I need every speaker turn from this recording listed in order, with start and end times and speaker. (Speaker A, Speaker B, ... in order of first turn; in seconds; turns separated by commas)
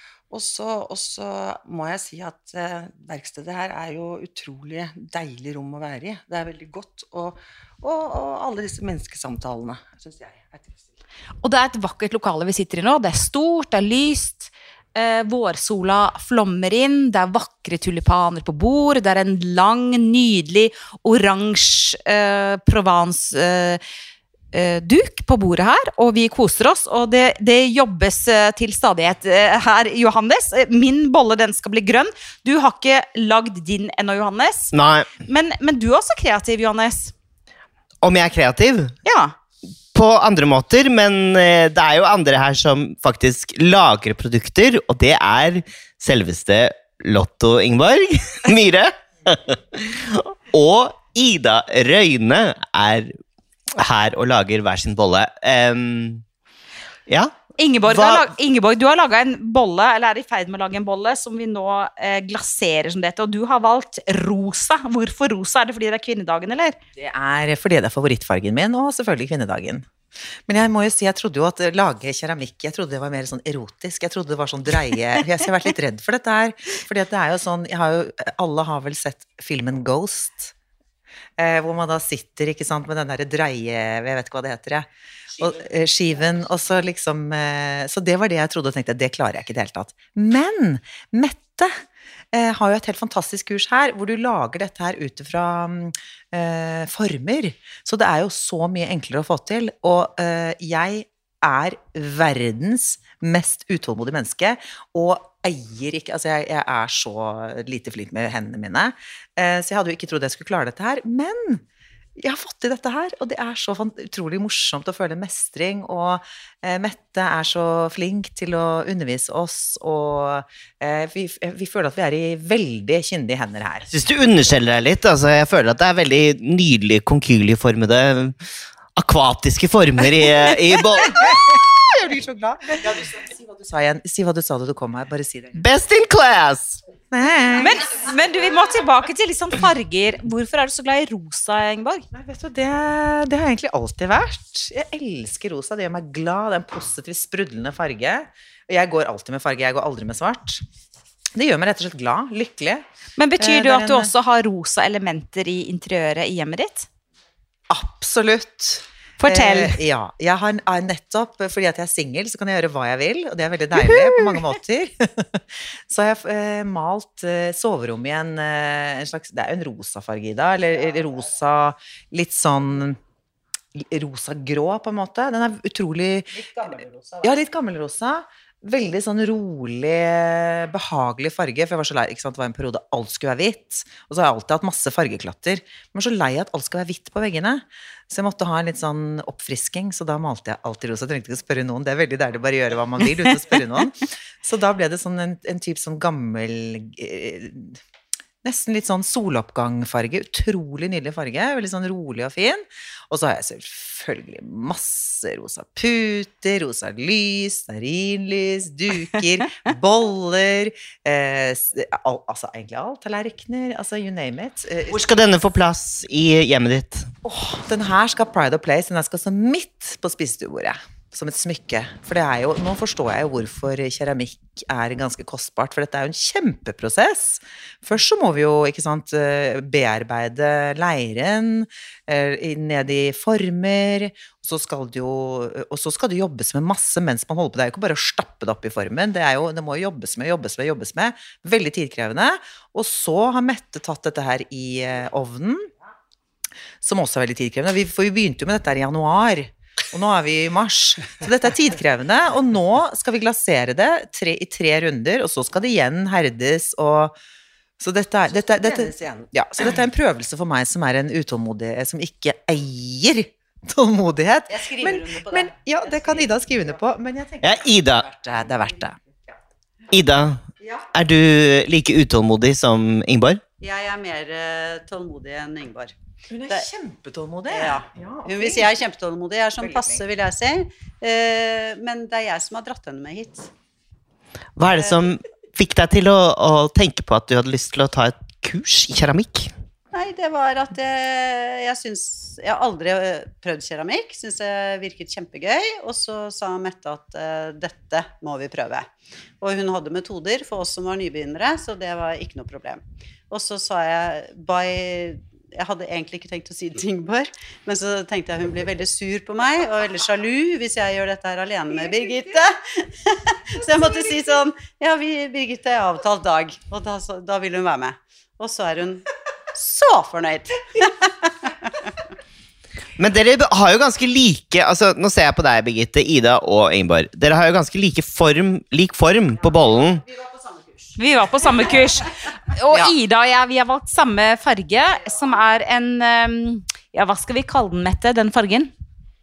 Speaker A: 0.3-11.0, Speaker B: 11.4-23.8, Speaker B: 24.5-37.1, Speaker C: 34.7-35.1, Speaker C: 38.0-38.9, Speaker B: 39.0-39.3, Speaker C: 39.9-53.1, Speaker C: 53.8-56.2, Speaker C: 57.1-57.3, Speaker B: 57.6-66.8, Speaker C: 57.9-58.2, Speaker D: 67.0-69.9, Speaker D: 70.5-80.5, Speaker D: 81.4-91.8, Speaker D: 92.3-111.6, Speaker D: 112.2-123.9, Speaker C: 123.9-128.4, Speaker C: 128.9-131.6, Speaker D: 131.2-135.6, Speaker C: 135.6-136.8, Speaker D: 137.1-137.9, Speaker B: 137.6-142.1, Speaker D: 142.1-150.6, Speaker D: 151.3-152.8, Speaker B: 153.2-156.9, Speaker D: 153.4-154.1, Speaker D: 157.7-173.0, Speaker B: 159.2-159.8, Speaker D: 173.8-197.8, Speaker D: 198.4-215.1, Speaker C: 214.9-217.1, Speaker D: 217.2-245.7, Speaker D: 246.8-257.1, Speaker D: 257.8-269.0, Speaker A: 258.3-259.3, Speaker E: 264.5-266.5, Speaker C: 267.4-268.0, Speaker C: 269.9-270.4, Speaker C: 270.9-273.4, Speaker E: 273.6-275.9, Speaker D: 276.3-278.7, Speaker E: 277.5-283.5, Speaker D: 279.6-280.0, Speaker C: 284.6-289.5, Speaker E: 289.9-298.9, Speaker E: 299.4-321.9, Speaker C: 323.0-330.1, Speaker B: 331.0-338.7